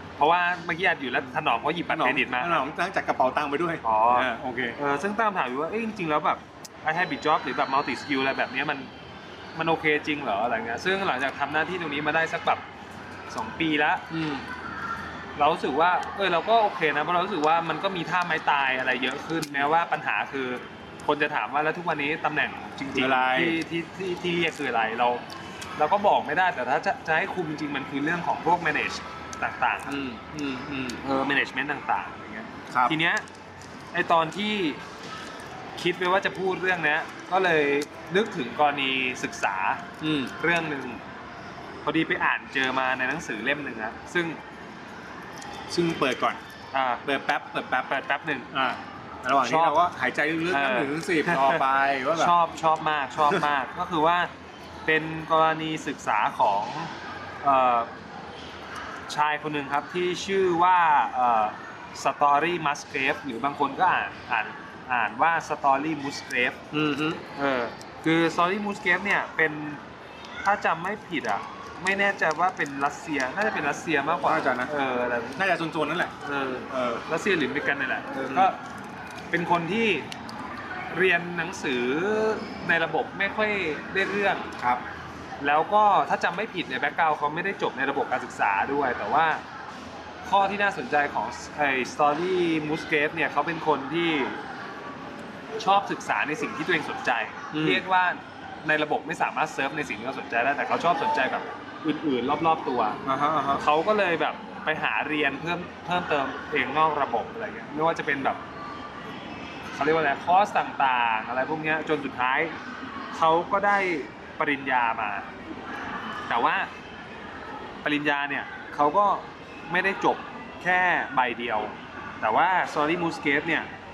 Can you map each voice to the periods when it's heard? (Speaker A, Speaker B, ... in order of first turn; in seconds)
Speaker A: 0.2-2.7, 3.8-8.9, 9.6-12.7, 13.3-14.1, 15.4-25.2, 25.8-30.0, 31.0-33.2, 33.9-34.8, 35.8-39.9, 40.4-41.0, 41.8-44.4, 46.7-47.0, 47.7-48.5, 49.4-49.8, 50.5-51.6, 52.1-54.3, 54.9-57.9, 59.1-66.6, 67.4-69.8, 70.4-75.4, 76.2-78.6, 79.3-80.1, 80.9-84.5, 85.4-89.4, 90.2-94.4, 95.6-108.4, 109.7-112.5, 113.1-115.3, 116.3-116.7, 117.8-123.7
Speaker B: 1.9-4.8, 14.1-14.4, 22.9-23.6, 29.9-31.0, 32.7-33.0, 40.0-40.3, 45.7-46.4, 47.0-47.9, 48.5-52.4, 66.7-67.2, 74.2-74.7, 75.4-76.1, 76.7-77.0, 78.2-78.5, 84.6-84.8, 97.5-97.8, 103.0-103.6